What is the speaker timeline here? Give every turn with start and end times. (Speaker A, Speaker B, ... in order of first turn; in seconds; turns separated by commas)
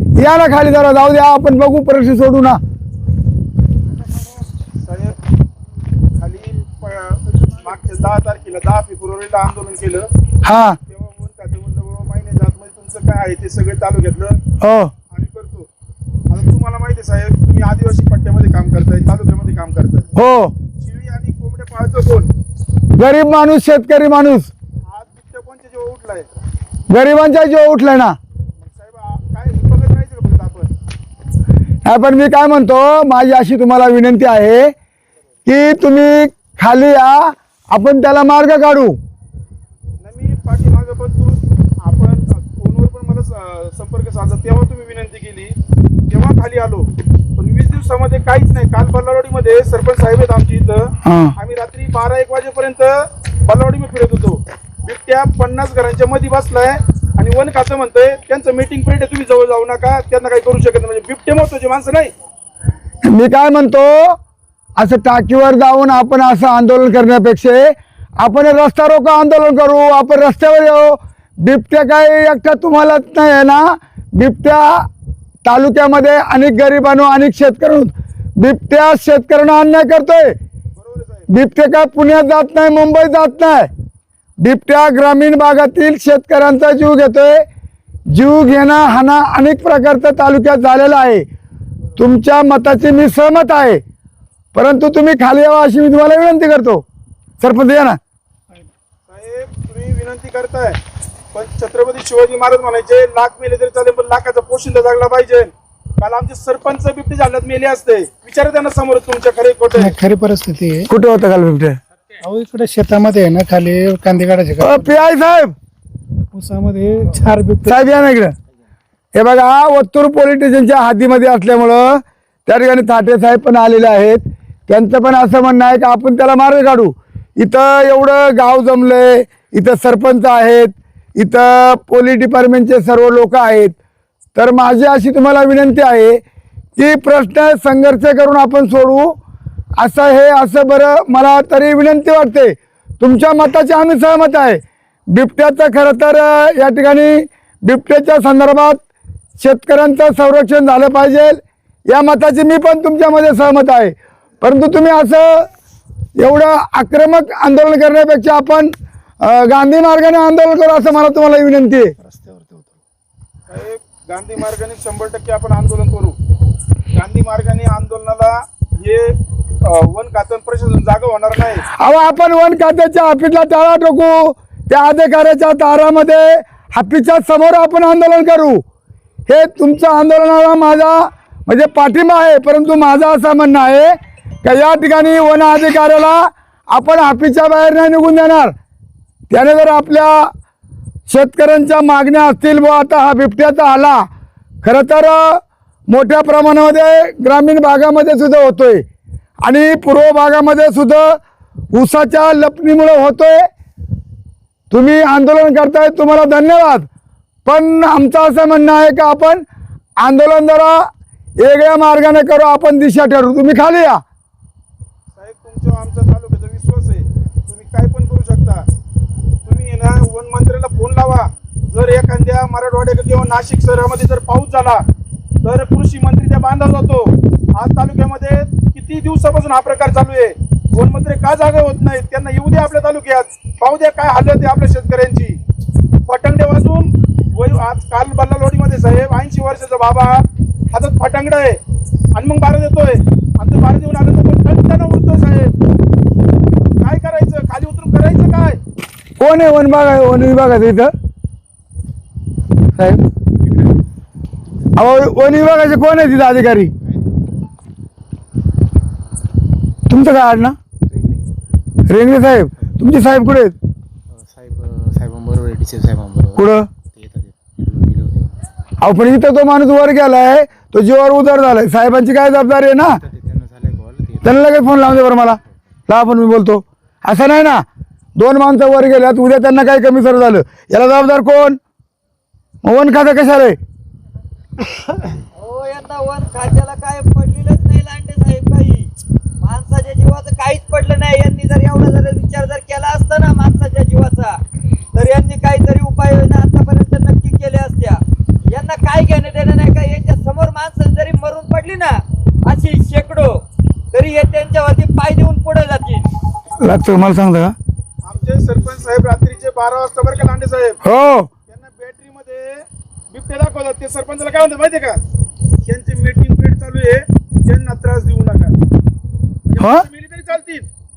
Speaker A: 0.1-2.6, Speaker B: 4.8-5.2, Speaker B: 6.2-10.1, Speaker A: 10.4-10.8, Speaker B: 10.9-14.4, Speaker A: 14.6-14.9, Speaker B: 15.1-15.7, Speaker B: 16.3-20.1, Speaker A: 20.1-20.5, Speaker B: 20.8-22.3, Speaker A: 23.0-24.5, Speaker B: 24.9-26.3, Speaker A: 26.9-28.1, Speaker B: 28.6-30.7, Speaker A: 31.8-34.7, Speaker A: 35.5-39.0, Speaker B: 40.0-45.5, Speaker B: 46.1-62.1, Speaker A: 51.0-51.3, Speaker A: 63.0-64.2, Speaker A: 64.8-74.9, Speaker A: 75.4-80.3, Speaker B: 80.8-81.3, Speaker A: 81.3-83.7, Speaker A: 84.4-87.5, Speaker A: 88.1-91.3, Speaker A: 92.0-93.8, Speaker A: 94.5-96.8, Speaker A: 97.4-98.0, Speaker B: 99.0-100.8, Speaker B: 101.3-110.0, Speaker C: 109.7-110.9, Speaker A: 110.9-111.8, Speaker C: 112.2-115.0, Speaker A: 114.6-115.5, Speaker C: 116.3-117.8, Speaker A: 117.7-118.3, Speaker A: 119.1-133.8, Speaker A: 134.3-136.2, Speaker A: 136.8-139.2, Speaker A: 139.8-148.8, Speaker A: 149.4-155.5, Speaker A: 156.2-161.9, Speaker C: 162.0-162.8, Speaker B: 163.5-166.1, Speaker B: 166.9-169.1, Speaker B: 169.7-171.6, Speaker A: 171.7-178.6, Speaker A: 179.3-188.5, Speaker A: 189.3-190.3, Speaker A: 191.1-194.1, Speaker A: 194.6-198.8, Speaker A: 199.4-201.2, Speaker A: 201.7-203.5, Speaker A: 204.7-206.9, Speaker A: 207.4-209.4, Speaker A: 210.0-210.9, Speaker A: 211.4-214.0, Speaker B: 215.1-218.7, Speaker B: 219.4-224.8, Speaker B: 225.4-235.4, Speaker B: 236.1-241.6, Speaker B: 242.2-245.5, Speaker B: 246.8-248.6, Speaker A: 249.2-250.9, Speaker A: 252.8-253.0, Speaker A: 254.8-256.7, Speaker A: 259.9-260.6, Speaker D: 260.9-261.2, Speaker A: 261.9-263.5, Speaker D: 264.1-268.3, Speaker A: 266.4-266.7, Speaker A: 268.8-272.9, Speaker D: 272.8-275.6, Speaker A: 274.2-277.6, Speaker A: 278.2-281.6, Speaker A: 282.6-283.6, Speaker E: 285.3-288.9, Speaker E: 289.4-294.4, Speaker E: 294.9-303.4, Speaker E: 303.9-306.1, Speaker A: 306.6-307.5, Speaker B: 308.0-310.8, Speaker A: 310.8-311.3, Speaker B: 311.5-315.0, Speaker B: 315.6-318.5, Speaker B: 319.5-320.7